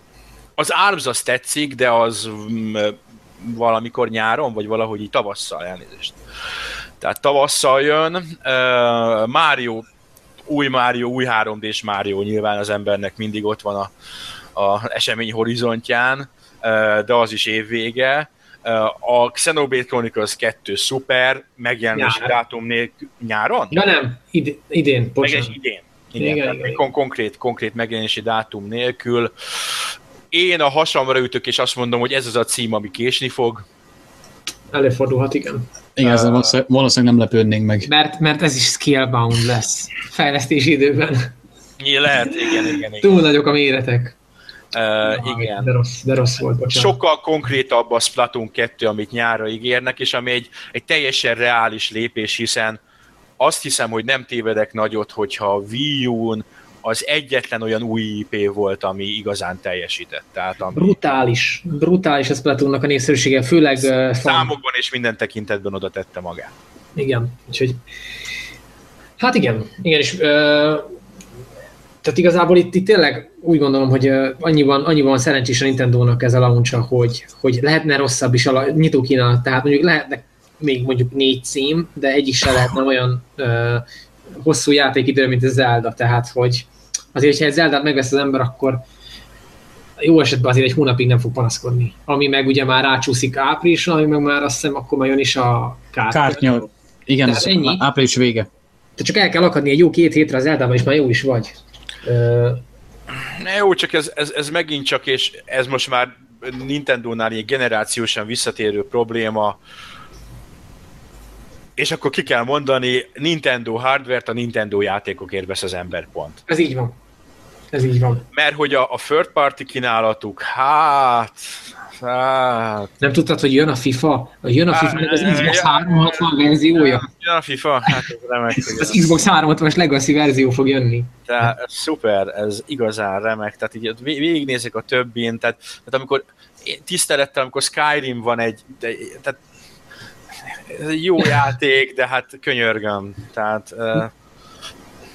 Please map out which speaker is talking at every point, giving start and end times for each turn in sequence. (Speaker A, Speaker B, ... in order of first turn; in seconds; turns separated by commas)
Speaker A: 0.6-6.2, Speaker A: 7.0-9.8, Speaker A: 10.5-13.9, Speaker A: 14.6-23.8, Speaker B: 21.9-22.4, Speaker B: 23.7-25.6, Speaker A: 25.2-29.8, Speaker B: 26.2-26.8, Speaker A: 30.3-33.6, Speaker B: 34.7-35.7, Speaker C: 36.0-37.9, Speaker A: 36.0-36.5, Speaker B: 37.9-41.3, Speaker A: 41.8-43.2, Speaker B: 42.6-44.1, Speaker A: 44.7-45.7, Speaker B: 45.1-47.0, Speaker A: 46.7-52.8, Speaker A: 53.4-61.0, Speaker B: 60.7-64.5, Speaker A: 63.8-66.5, Speaker B: 67.0-67.8, Speaker B: 69.2-70.9, Speaker B: 72.0-83.8, Speaker B: 84.4-88.8, Speaker B: 90.0-96.7, Speaker C: 96.1-98.5, Speaker B: 97.2-97.8, Speaker B: 99.0-101.5, Speaker B: 102.0-102.6, Speaker A: 103.2-109.6, Speaker A: 111.8-116.4, Speaker B: 116.5-117.0, Speaker B: 117.7-118.2, Speaker A: 118.3-122.9, Speaker B: 123.0-127.1, Speaker A: 124.7-129.2, Speaker B: 128.6-131.1, Speaker A: 131.3-139.4, Speaker A: 140.7-144.1